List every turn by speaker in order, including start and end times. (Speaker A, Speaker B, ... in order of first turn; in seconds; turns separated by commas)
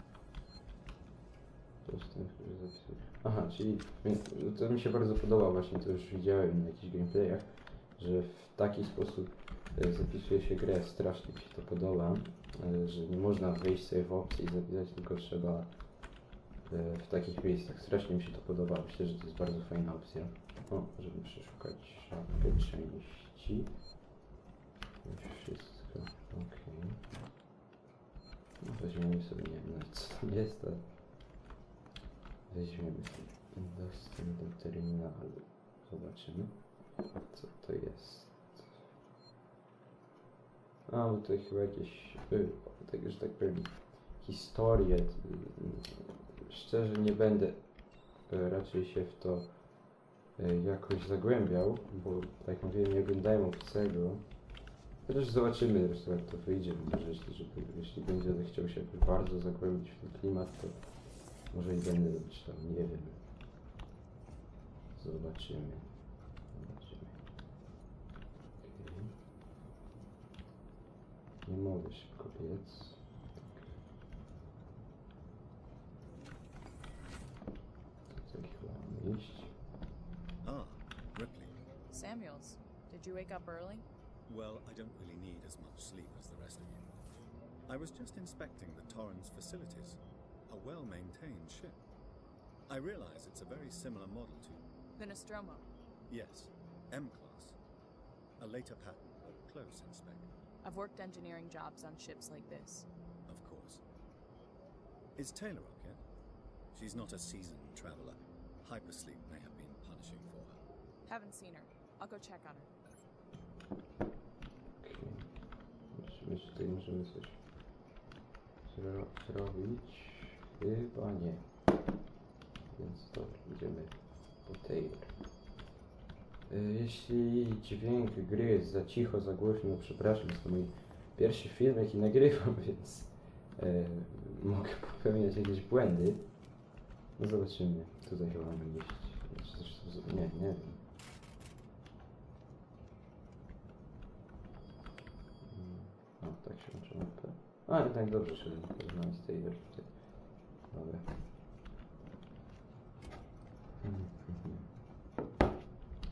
Speaker A: 1.8-15.7, Speaker A: 16.6-23.7, Speaker A: 25.0-27.0, Speaker A: 28.6-30.8, Speaker A: 32.5-36.6, Speaker A: 37.2-38.8, Speaker A: 40.9-47.6, Speaker A: 48.3-49.5, Speaker A: 50.4-54.3, Speaker A: 55.0-60.8, Speaker A: 61.5-63.2, Speaker A: 64.9-65.9, Speaker A: 66.5-67.2, Speaker A: 68.6-69.1, Speaker A: 71.4-73.7, Speaker A: 78.1-79.5, Speaker B: 80.4-81.6, Speaker C: 81.9-83.8, Speaker B: 84.3-86.8, Speaker B: 87.7-91.8, Speaker B: 92.7-94.7, Speaker C: 95.0-95.7, Speaker B: 96.1-97.6, Speaker B: 98.4-100.3, Speaker C: 100.6-102.8, Speaker B: 103.3-103.8, Speaker B: 105.2-106.0, Speaker B: 106.7-110.6, Speaker C: 111.0-112.7, Speaker A: 114.8-115.3, Speaker A: 115.9-117.4, Speaker A: 118.7-121.5, Speaker A: 122.7-123.9, Speaker A: 124.4-125.1, Speaker A: 126.5-136.3, Speaker A: 137.2-140.8, Speaker A: 145.4-151.1, Speaker A: 153.8-154.7